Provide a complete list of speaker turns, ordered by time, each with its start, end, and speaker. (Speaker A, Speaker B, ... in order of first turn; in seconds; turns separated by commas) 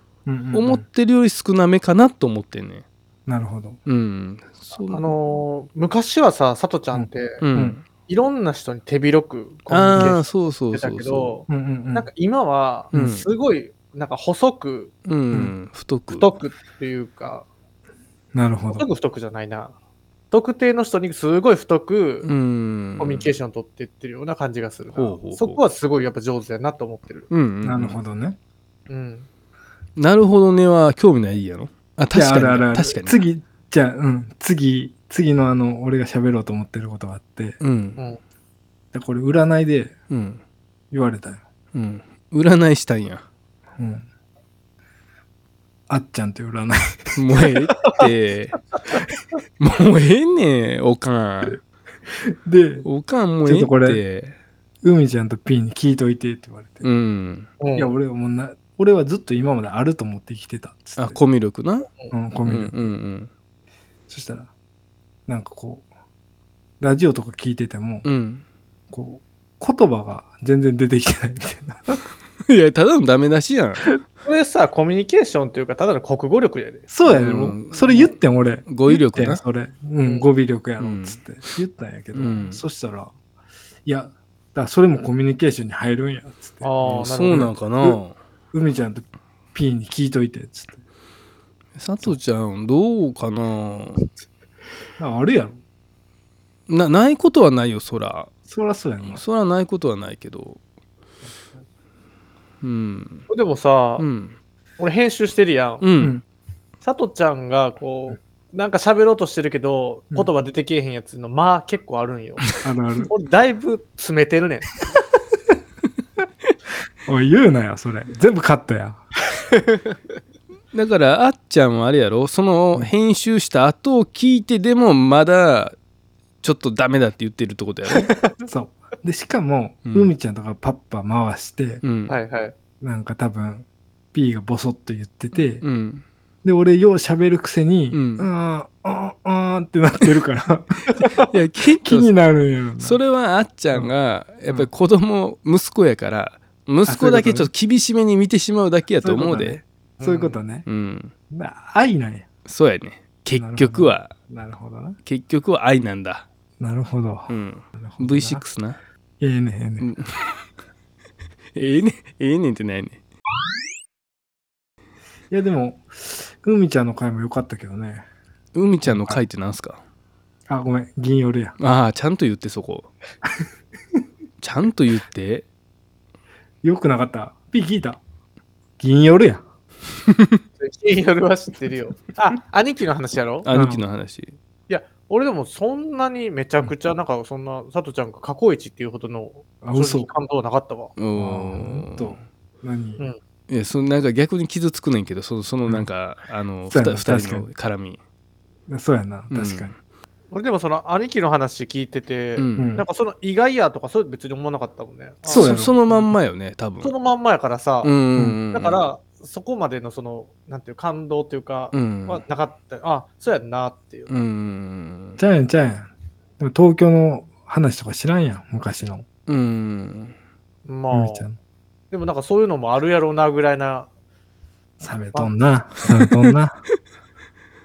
Speaker A: 0.2-0.8, Speaker B: 0.5-2.8, Speaker A: 3.2-3.8, Speaker B: 3.9-5.1, Speaker C: 4.9-7.4, Speaker A: 6.9-7.8, Speaker B: 7.4-7.8, Speaker C: 8.0-14.9, Speaker B: 9.7-11.3, Speaker A: 11.5-12.1, Speaker B: 12.9-13.2, Speaker B: 15.1-16.3, Speaker C: 16.1-17.4, Speaker A: 18.3-18.8, Speaker C: 18.7-19.7, Speaker C: 20.3-22.3, Speaker B: 22.2-23.3, Speaker C: 23.0-27.3, Speaker B: 24.9-25.6, Speaker B: 27.3-27.9, Speaker A: 27.6-28.4, Speaker C: 28.9-29.3, Speaker B: 30.0-33.2, Speaker A: 32.1-37.6, Speaker B: 37.6-38.0, Speaker A: 38.9-39.9, Speaker B: 40.1-40.4, Speaker A: 40.9-41.4, Speaker B: 41.7-43.2, Speaker A: 43.8-44.1, Speaker A: 45.9-47.1, Speaker B: 47.1-48.6, Speaker B: 49.6-51.6, Speaker A: 52.1-52.9, Speaker B: 52.8-54.4, Speaker A: 53.4-54.0, Speaker A: 54.8-56.8, Speaker B: 56.8-57.5, Speaker C: 57.6-57.9, Speaker A: 57.7-61.2, Speaker B: 61.0-61.9, Speaker A: 62.1-62.8, Speaker B: 62.4-63.3, Speaker A: 64.1-64.5, Speaker A: 65.3-65.8, Speaker A: 66.8-68.0, Speaker B: 68.0-68.4, Speaker A: 68.9-72.0, Speaker B: 72.5-73.8, Speaker C: 74.2-76.9, Speaker A: 76.9-83.1, Speaker B: 77.0-78.0, Speaker B: 78.7-79.4, Speaker C: 80.0-80.3, Speaker B: 80.8-81.2, Speaker B: 82.1-82.6, Speaker A: 83.8-88.0, Speaker C: 86.6-87.5, Speaker B: 86.8-88.2, Speaker A: 88.5-90.8, Speaker B: 91.8-94.0, Speaker A: 95.0-95.6, Speaker B: 96.7-98.3, Speaker A: 98.5-99.2, Speaker B: 99.0-100.6, Speaker B: 102.6-103.2, Speaker C: 103.3-104.1, Speaker B: 104.0-104.3, Speaker C: 104.8-105.9, Speaker B: 105.8-106.2, Speaker C: 106.8-114.9, Speaker A: 112.6-113.1, Speaker A: 117.0-119.0, Speaker B: 120.7-125.8, Speaker B: 126.4-128.1, Speaker A: 128.4-131.8, Speaker B: 129.8-130.1, Speaker B: 131.8-132.1, Speaker C: 132.1-132.5, Speaker A: 132.8-135.6, Speaker B: 135.6-136.0, Speaker A: 136.4-141.2, Speaker B: 137.9-138.3, Speaker B: 141.2-142.1, Speaker A: 141.8-143.0, Speaker B: 142.8-149.6, Speaker A: 146.8-147.5, Speaker A: 149.0-150.7, Speaker C: 150.0-150.4, Speaker B: 150.7-151.1, Speaker A: 151.3-152.3, Speaker B: 152.4-154.1, Speaker A: 153.3-155.0, Speaker B: 155.0-156.2, Speaker A: 156.6-158.4, Speaker B: 157.3-158.8, Speaker A: 159.2-159.9, Speaker B: 159.8-160.3, Speaker B: 161.5-163.0, Speaker A: 165.3-168.1, Speaker B: 168.5-169.8, Speaker A: 168.8-169.2, Speaker A: 170.5-171.5, Speaker B: 171.6-172.9, Speaker B: 174.4-175.4, Speaker A: 176.6-178.0, Speaker A: 178.8-179.4, Speaker B: 180.1-180.4, Speaker C: 180.6-183.5, Speaker B: 183.4-184.3, Speaker A: 183.5-183.8, Speaker C: 184.7-190.9, Speaker A: 189.6-190.1, Speaker B: 191.0-192.2, Speaker A: 191.2-193.0, Speaker B: 193.5-198.0, Speaker A: 196.7-197.5, Speaker A: 198.7-199.7, Speaker B: 199.3-199.7, Speaker C: 200.3-205.6, Speaker B: 202.3-202.7, Speaker A: 202.6-202.8, Speaker A: 205.2-205.8, Speaker B: 205.3-206.9, Speaker C: 206.8-207.9, Speaker B: 207.8-208.8, Speaker C: 208.5-214.1, Speaker B: 211.7-212.2, Speaker B: 214.1-215.2, Speaker A: 215.2-219.1, Speaker B: 219.3-220.1, Speaker C: 220.7-221.3, Speaker A: 220.9-221.3, Speaker C: 221.9-223.9, Speaker A: 224.8-226.6